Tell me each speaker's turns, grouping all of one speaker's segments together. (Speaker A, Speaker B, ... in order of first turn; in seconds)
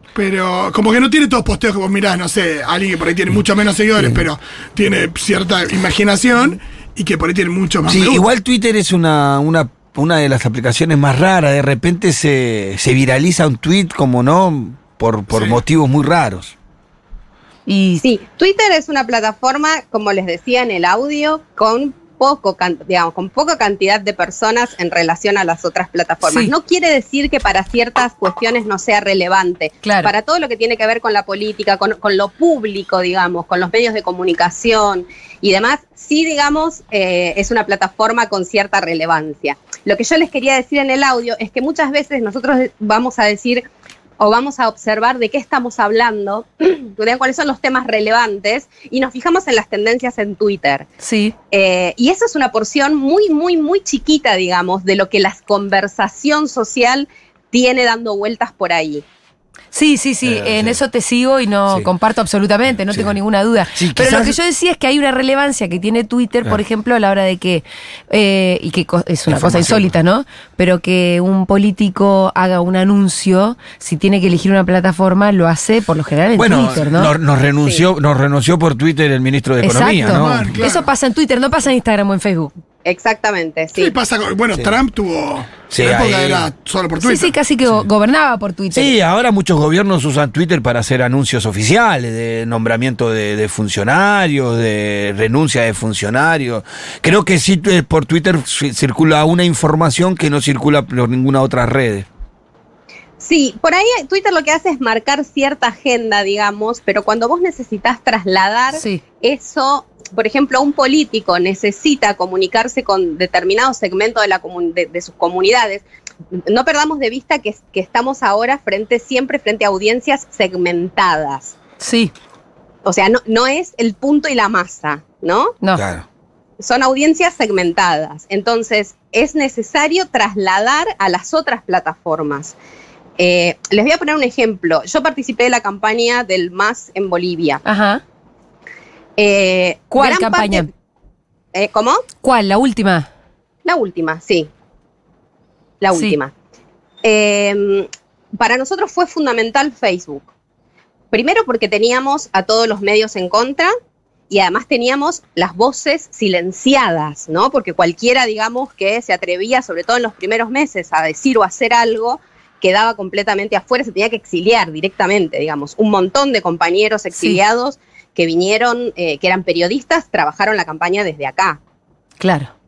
Speaker A: 0.1-8.2, 80.0-80.9, 83.8-87.3
Speaker B: 7.9-16.5, 60.3-60.8, 63.8-64.4, 69.3-69.9, 76.4-80.5, 85.7-86.5, 88.7-102.1, 125.8-126.0
Speaker C: 17.7-18.0, 26.2-26.5, 29.8-30.1, 51.0-51.4, 59.7-77.1, 79.6-82.5, 87.0-88.9, 108.7-109.0, 121.8-122.1, 137.7-138.0, 139.9-140.7, 142.2-143.1, 172.2-172.5
Speaker D: 18.0-43.7, 44.2-50.9, 51.5-59.0, 82.8-83.9, 103.2-115.8, 116.5-121.6, 122.8-125.6, 126.6-132.6, 133.2-137.6, 139.2-140.7, 141.5-142.0, 143.7-144.5, 145.8-146.3, 147.0-150.3, 151.1-153.7, 154.3-171.6